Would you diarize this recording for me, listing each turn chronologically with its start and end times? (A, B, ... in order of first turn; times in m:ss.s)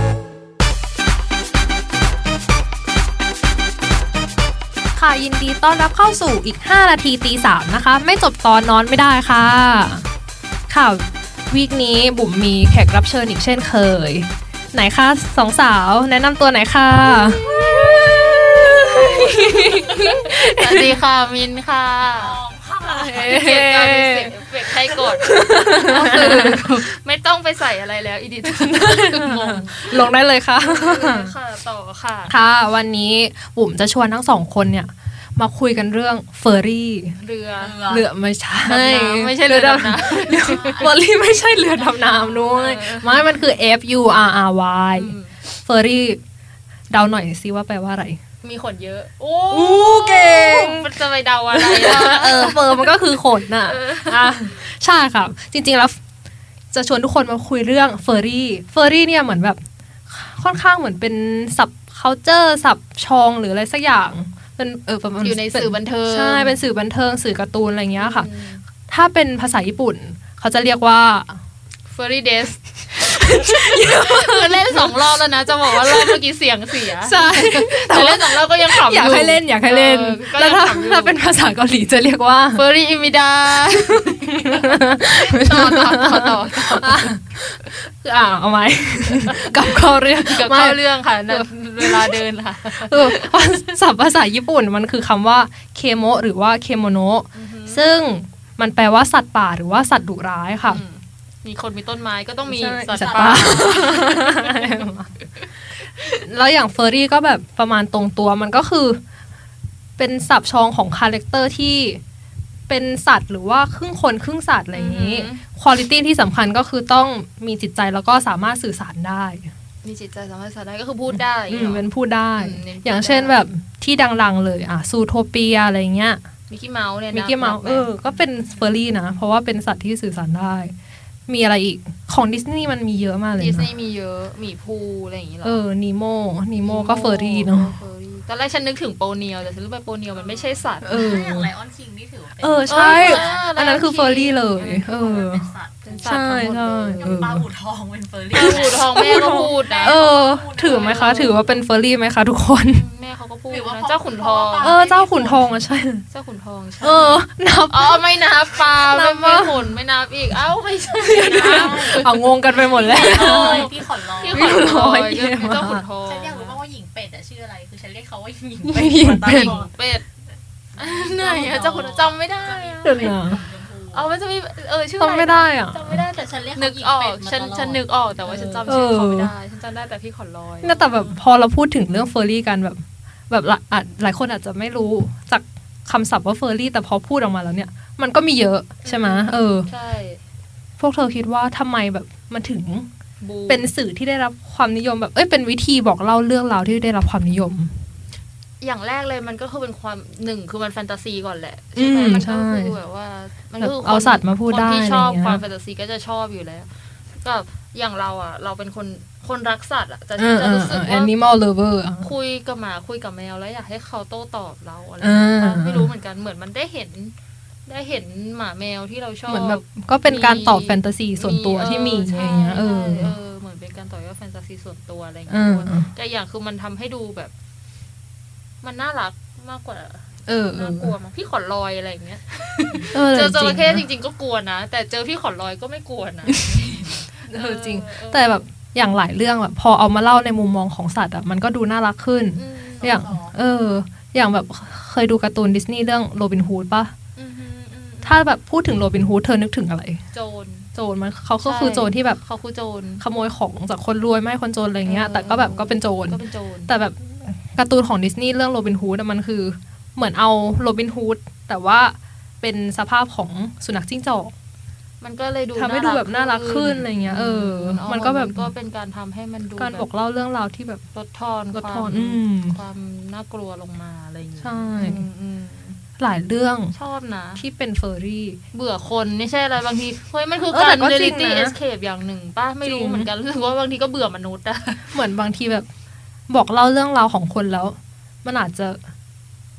0:04.9-0:10.0 A
0:10.7-0:21.0 A
0:18.8-0:22.4 B
0:22.0-0:23.4 C
0:22.8-0:24.4 A
0:23.1-0:32.4 B
0:24.9-0:26.8 A
0:28.4-0:31.3 A
0:32.3-0:37.2 A
0:37.2-0:37.8 B
0:37.5-0:38.1 C
0:37.9-0:46.2 A
0:38.6-0:41.0 B
0:40.8-0:41.1 C
0:41.6-0:43.3 B
0:44.9-0:45.4 B
0:46.9-0:48.2 A
0:48.4-0:54.5 B
0:49.5-0:51.0 A
0:51.5-0:56.0 A
0:56.7-1:08.3 A
1:05.2-1:06.6 B
1:08.0-1:08.6 B
1:08.9-1:11.4 A
1:11.9-1:21.2 B
1:13.0-1:16.2 A
1:16.9-1:22.7 A
1:22.5-1:27.2 B
1:23.6-1:40.8 A
1:29.0-1:33.5 B
1:37.3-1:37.9 B
1:40.6-1:44.9 B
1:42.4-1:45.1 A
1:42.9-1:43.9 C
1:46.0-1:49.0 A
1:50.0-1:52.0 A
1:52.7-1:59.5 A
1:54.7-1:55.4 B
1:59.8-2:03.4 B
2:01.1-2:06.2 A
2:06.5-2:08.6 B
2:07.1-2:10.7 A
2:11.3-2:13.7 A
2:13.3-2:15.6 B
2:15.4-2:17.8 A
2:16.6-2:21.2 B
2:20.1-2:23.5 C
2:20.8-2:21.5 A
2:22.4-2:25.5 A
2:22.7-2:25.0 B
2:24.9-2:31.6 C
2:25.8-2:27.1 B
2:26.1-2:27.5 A
2:28.3-2:32.8 A
2:28.3-2:30.0 B
2:30.7-2:31.5 B
2:32.6-2:34.8 B
2:33.5-2:35.6 C
2:34.6-2:36.0 A
2:36.1-2:42.1 B
2:36.8-2:38.1 A
2:38.5-2:38.9 C
2:38.8-2:39.7 A
2:40.9-2:43.7 A
2:41.0-2:44.6 C
2:42.8-2:46.6 B
2:44.3-2:45.8 A
2:46.0-2:49.7 C
2:48.7-2:49.6 A
2:49.2-2:50.1 B
2:50.7-2:54.2 C
2:50.8-3:01.1 B
2:52.8-2:53.4 A
2:55.0-2:56.1 A
2:56.0-2:58.7 C
2:58.6-2:59.3 A
3:00.6-3:09.7 A
3:08.8-3:10.2 B
3:10.8-3:12.9 A
3:13.2-3:13.7 B
3:13.5-3:17.8 A
3:18.6-3:31.1 B
3:21.8-3:22.8 A
3:23.6-3:25.4 A
3:30.2-3:32.1 A
3:32.0-3:47.3 B
3:35.0-3:35.9 A
3:39.3-3:43.2 A
3:45.3-3:45.9 A
3:48.6-3:58.4 B
3:50.2-3:50.9 A
3:52.9-3:53.8 A
3:56.3-3:56.7 A
3:56.6-3:57.0 C
3:57.3-4:06.9 A
4:02.3-4:03.1 B
4:02.8-4:03.4 C
4:07.2-4:08.2 B
4:08.0-4:10.0 A
4:10.1-4:10.7 B
4:10.7-4:12.2 A
4:11.4-4:13.0 B
4:13.0-4:24.3 A
4:14.8-4:16.8 B
4:25.0-4:29.9 B
4:25.6-4:28.5 A
4:29.6-4:30.8 A
4:30.9-4:35.8 B
4:31.5-4:32.6 A
4:34.4-4:35.0 A
4:36.0-4:36.7 A
4:36.7-4:37.4 B
4:37.4-4:38.4 A
4:38.5-4:45.0 B
4:40.5-4:41.6 A
4:42.6-4:43.1 A
4:44.9-4:45.7 A
4:46.3-4:48.8 A